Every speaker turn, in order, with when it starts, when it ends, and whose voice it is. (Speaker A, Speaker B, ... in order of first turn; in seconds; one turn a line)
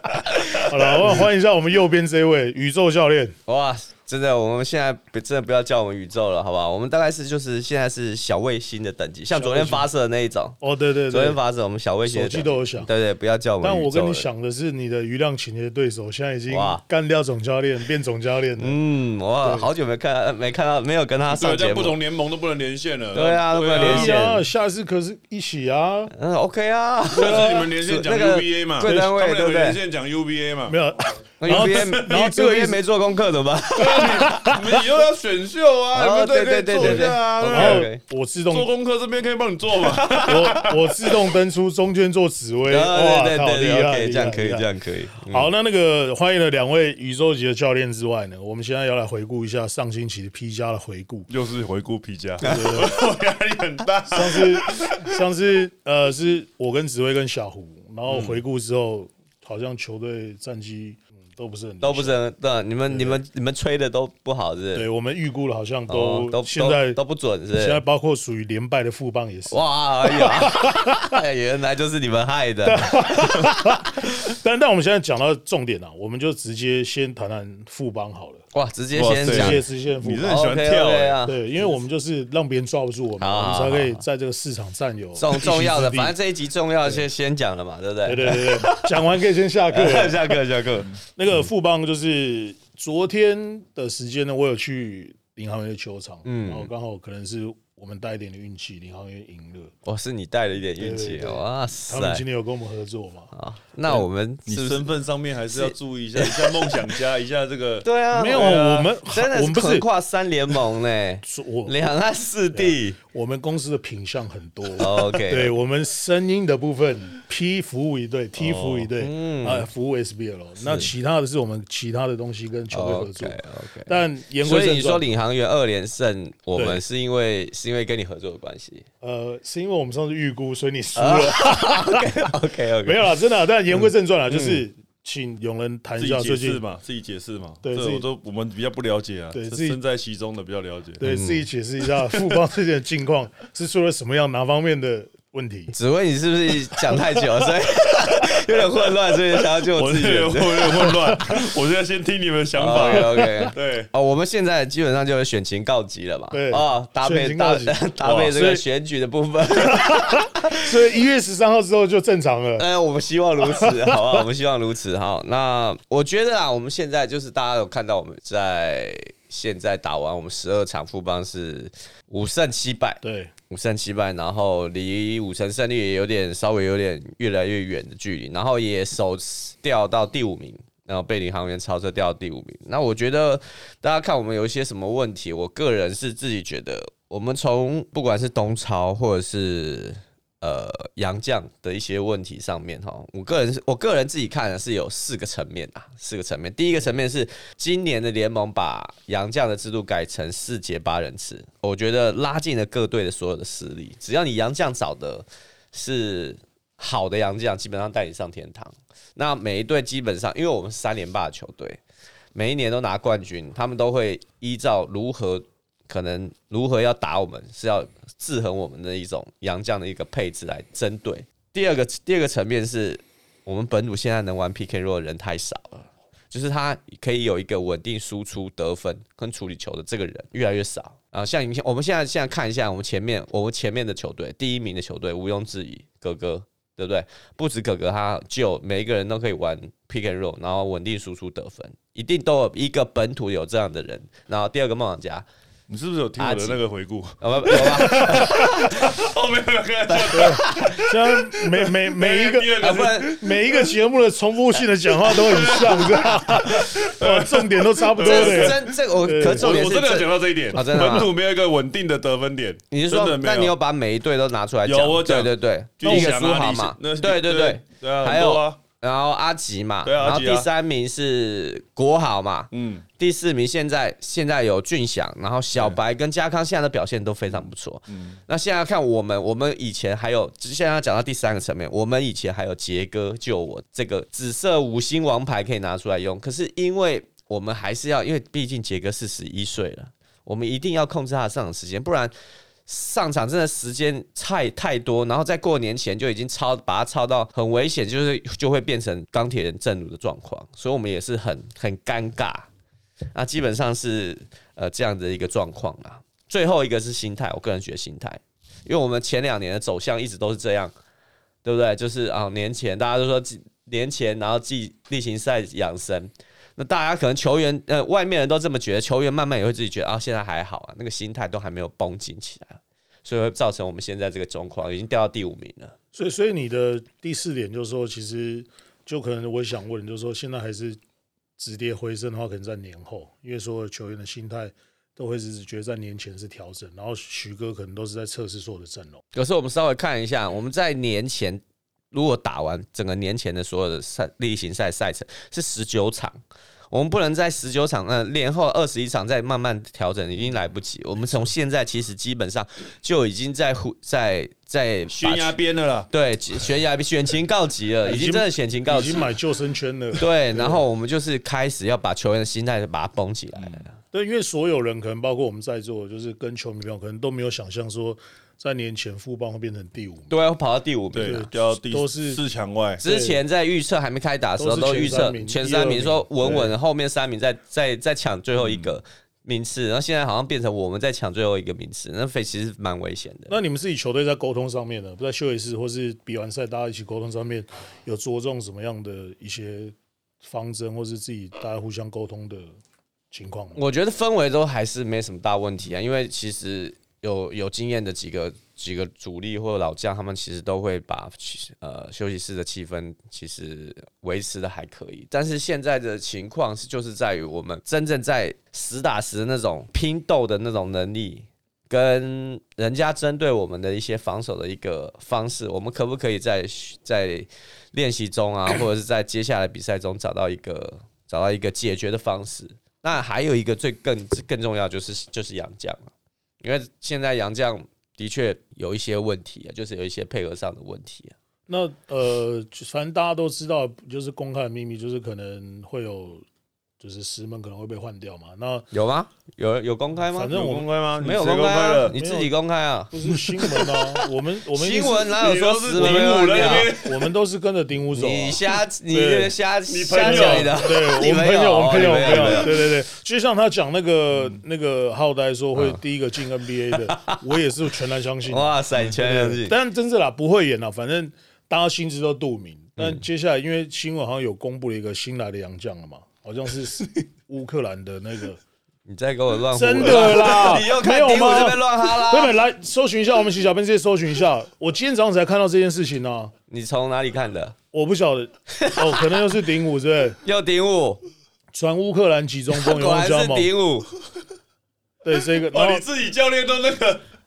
Speaker A: 0.2-1.2
Speaker B: 0.5-3.4
Speaker C: 0.9-1.2
Speaker A: 3.5-10.6
Speaker B: 9.3-9.9
Speaker B: 10.6-11.4
Speaker A: 11.1-14.3
Speaker B: 12.1-12.9
Speaker B: 13.6-18.8
Speaker A: 16.5-16.8
Speaker A: 18.6-21.9
Speaker B: 19.4-19.7
Speaker C: 21.3-24.2
Speaker A: 23.1-24.4
Speaker B: 23.7-26.1
Speaker A: 26.1-29.8
Speaker C: 27.1-30.8
Speaker B: 28.8-29.1
Speaker B: 30.7-32.8
Speaker A: 31.4-34.5
Speaker C: 33.8-37.9
Speaker B: 34.0-34.8
Speaker A: 35.9-38.0
Speaker B: 36.8-38.7
Speaker C: 38.5-41.1
Speaker A: 39.8-40.7
Speaker B: 40.1-44.6
Speaker A: 42.7-45.5
Speaker B: 45.3-51.3
Speaker C: 51.3-55.0
Speaker B: 52.4-52.9
Speaker B: 54.1-62.1
Speaker A: 58.1-58.4
Speaker A: 61.8-64.8
Speaker B: 62.9-63.2
Speaker B: 64.7-67.0
Speaker A: 65.9-67.8
Speaker B: 67.5-71.2
Speaker A: 69.5-74.2
Speaker B: 72.7-78.4
Speaker A: 78.5-79.6
Speaker C: 78.9-81.2
Speaker B: 79.3-80.4
Speaker A: 80.2-81.4
Speaker B: 81.2-86.1
Speaker A: 83.2-84.0
Speaker A: 85.2-89.1
Speaker B: 88.0-90.5
Speaker A: 89.7-91.0
Speaker B: 91.2-99.7
Speaker A: 96.2-96.7
Speaker A: 99.8-102.2
Speaker B: 100.8-103.3
Speaker A: 103.3-104.8
Speaker C: 104.5-108.7
Speaker A: 105.5-106.8
Speaker A: 107.8-113.0
Speaker B: 108.1-109.8
Speaker B: 111.2-111.8
Speaker B: 112.5-125.0
Speaker A: 114.8-115.5
Speaker C: 118.4-118.9
Speaker A: 119.0-119.7
Speaker A: 120.6-120.9
Speaker A: 122.7-128.8
Speaker B: 126.5-126.8
Speaker B: 129.0-132.3
Speaker A: 130.9-133.1
Speaker B: 132.8-136.6
Speaker A: 133.7-134.6
Speaker C: 136.0-141.0
Speaker B: 137.6-138.0
Speaker B: 139.3-139.8
Speaker B: 141.0-145.7
Speaker A: 141.0-141.5
Speaker C: 142.0-142.3
Speaker A: 145.7-151.2
Speaker C: 149.7-153.9
Speaker A: 152.6-160.7
Speaker B: 156.3-158.6
Speaker C: 158.0-158.3
Speaker B: 159.6-162.7
Speaker A: 162.6-211.8
Speaker B: 163.4-164.2
Speaker B: 173.0-173.3
Speaker A: 212.3-245.3
Speaker C: 245.7-253.7
Speaker A: 246.2-246.6
Speaker A: 247.2-248.9
Speaker A: 249.9-250.8
Speaker B: 250.1-259.5
Speaker A: 252.6-253.2
Speaker C: 255.0-258.8
Speaker A: 258.0-261.1
Speaker C: 259.3-263.6
Speaker B: 260.7-261.0
Speaker A: 262.7-292.1
Speaker C: 264.6-268.6
Speaker C: 269.8-270.5
Speaker C: 272.5-272.9
Speaker C: 277.3-278.2
Speaker A: 292.7-302.5
Speaker A: 303.1-310.7
Speaker A: 311.4-325.7
Speaker B: 325.9-330.8
Speaker B: 331.4-339.0
Speaker A: 339.1-341.4
Speaker A: 341.9-346.2
Speaker A: 346.7-355.4
Speaker C: 354.9-355.9
Speaker A: 355.9-359.1
Speaker B: 357.8-360.6
Speaker A: 359.9-363.8
Speaker C: 363.3-363.6
Speaker B: 363.9-370.1
Speaker A: 370.1-371.2
Speaker C: 370.9-372.8
Speaker B: 371.0-372.2
Speaker B: 372.8-373.2
Speaker A: 372.8-383.3
Speaker B: 374.4-376.5
Speaker C: 378.4-378.7
Speaker B: 383.3-392.5
Speaker B: 393.1-393.6
Speaker A: 393.5-431.1
Speaker B: 431.5-436.2
Speaker B: 436.8-438.7
Speaker A: 438.7-440.3
Speaker B: 440.1-440.7
Speaker C: 440.3-442.0
Speaker A: 441.0-443.8
Speaker B: 441.9-442.3
Speaker B: 442.9-449.4
Speaker A: 444.5-446.7
Speaker C: 445.2-447.1
Speaker A: 447.9-452.6
Speaker C: 449.7-450.6
Speaker B: 449.9-468.4
Speaker C: 451.8-452.5
Speaker A: 456.7-457.2
Speaker A: 458.2-459.5
Speaker A: 462.8-463.0
Speaker A: 468.9-472.3
Speaker B: 469.5-476.3
Speaker A: 476.5-477.6
Speaker B: 477.7-480.2
Speaker A: 478.5-479.2
Speaker A: 480.2-481.0
Speaker B: 481.5-483.5
Speaker A: 482.5-483.9
Speaker B: 485.0-485.9
Speaker C: 485.5-487.0